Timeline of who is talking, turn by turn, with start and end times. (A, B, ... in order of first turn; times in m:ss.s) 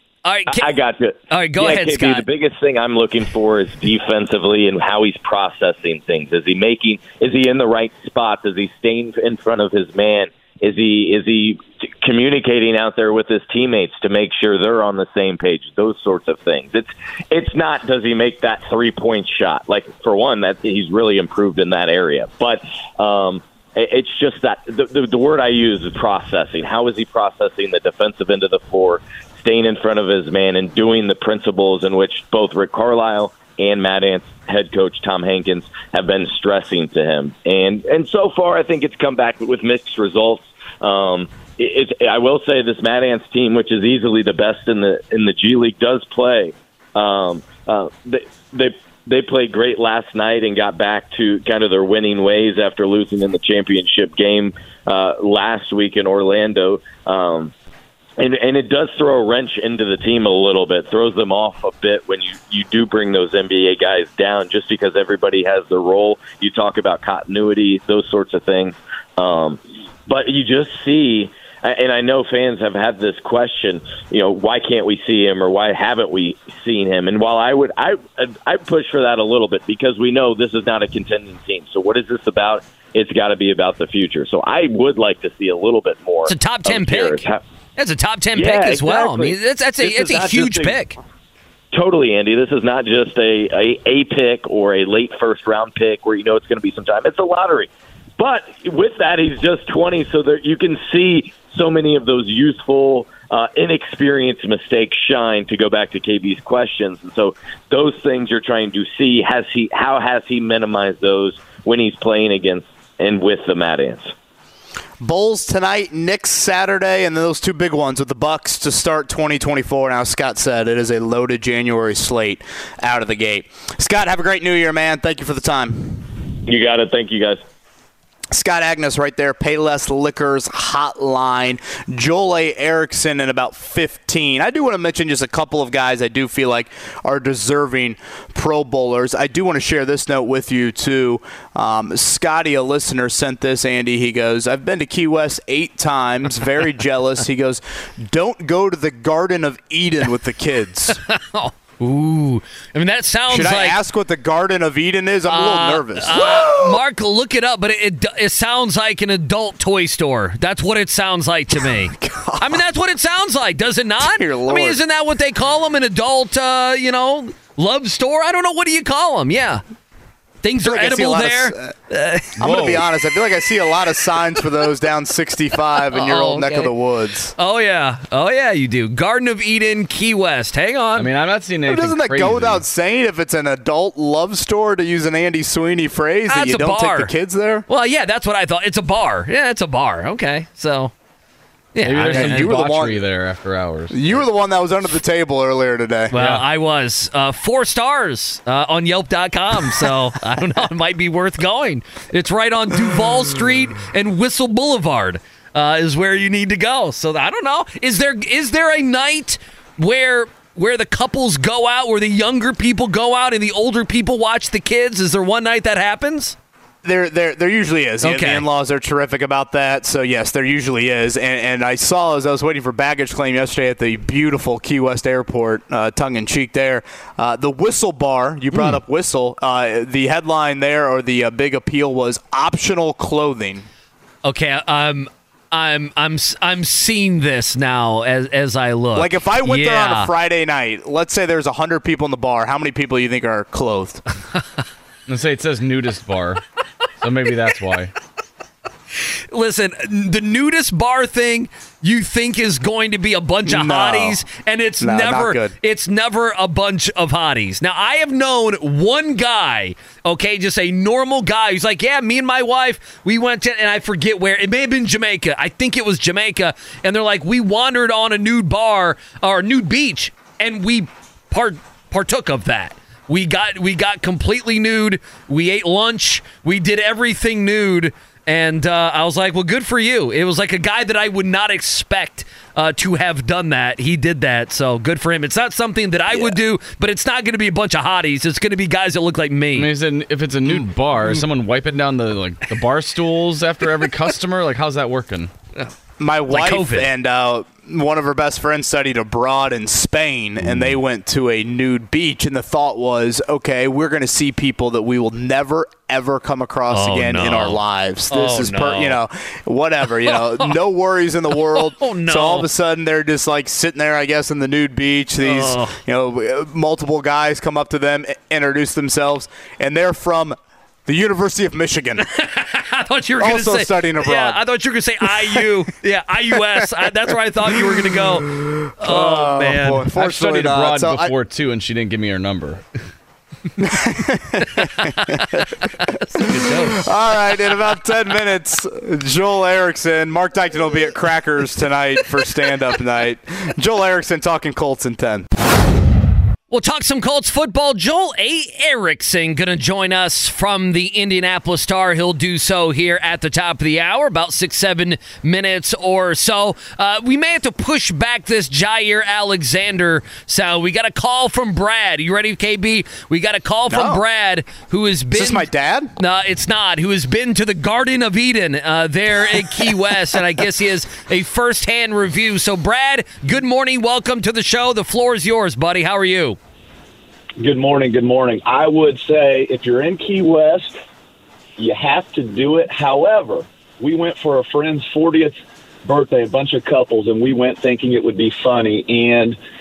0:00.2-0:00.7 A
0:00.5-0:57.5 B
0:01.3-0:02.2 A
0:58.2-1:27.4 B
1:26.3-1:27.2 A
1:27.8-1:31.0 A
1:28.4-1:30.8 B
1:31.7-1:54.1 B
1:55.0-2:06.1 C
2:06.5-2:07.4 B
2:08.3-2:31.0 C
2:31.1-2:33.8 A
2:33.3-2:36.8 C
2:35.3-2:49.6 A
2:41.6-2:42.6 C
2:44.0-2:44.8 C
2:50.4-2:52.7 A
2:50.6-2:51.8 C
2:52.4-2:57.3 C
2:52.4-2:52.8 D
2:55.9-2:56.7 A
2:57.4-3:01.1 A
3:01.0-3:02.6 D
3:01.7-3:07.7 C
3:06.3-3:07.1 A
3:07.7-3:10.9 A
3:11.8-3:12.5 A
3:11.8-3:14.2 D
3:12.0-3:13.0 C
3:13.9-3:16.1 C
3:16.1-3:36.4 A
3:16.2-3:16.4 D
3:36.8-3:53.7 C
3:38.0-3:38.5 A
3:54.2-4:00.1 A
3:59.0-4:04.0 C
4:05.1-4:06.4 D
4:07.0-4:07.9 D
4:09.3-4:49.7 A
4:13.5-4:14.2 C
4:14.8-4:15.6 C
4:49.5-4:55.3 D
4:56.0-5:22.0 C
4:56.3-4:56.9 A
5:06.7-5:07.6 A
5:08.1-5:09.0 A
5:10.0-5:10.5 A
5:11.4-5:12.5 A
5:15.2-5:15.8 A
5:22.0-5:29.9 A
5:23.2-5:24.4 C
5:25.0-5:25.5 C
5:28.3-5:31.1 C
5:30.0-5:32.6 D
5:33.6-5:35.4 C
5:34.6-5:36.8 A
5:36.2-5:45.3 C
5:46.5-6:16.4 A
6:03.7-6:04.0 C
6:05.1-6:05.9 C
6:17.4-6:20.8 E
6:21.6-6:29.4 E